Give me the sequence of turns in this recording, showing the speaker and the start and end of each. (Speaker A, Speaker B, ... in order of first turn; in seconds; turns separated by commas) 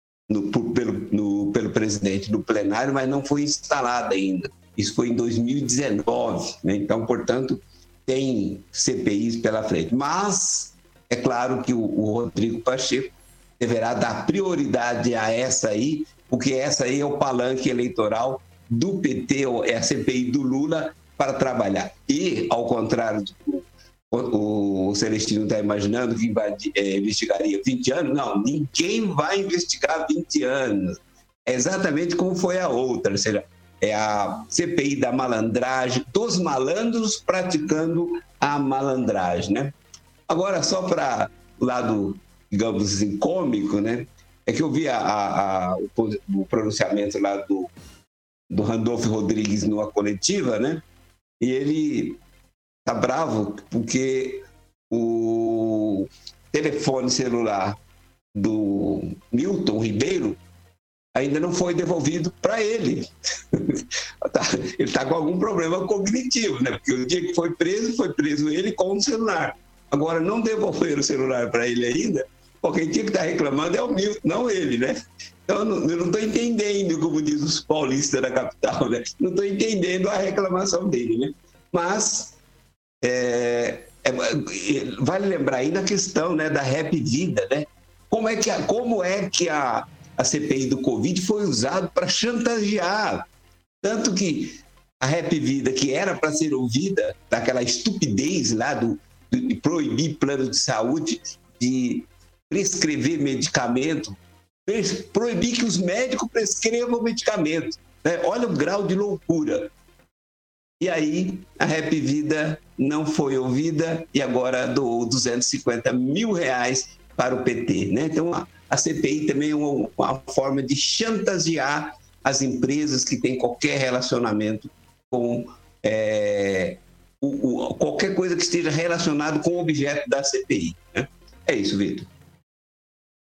Speaker A: 0.3-39.7, Speaker A: 40.3-47.7, Speaker A: 48.5-50.8, Speaker A: 51.4-52.2, Speaker A: 52.9-57.8, Speaker A: 58.4-60.4, Speaker A: 61.1-82.4, Speaker A: 83.0-93.3, Speaker A: 93.8-109.7, Speaker A: 110.8-132.1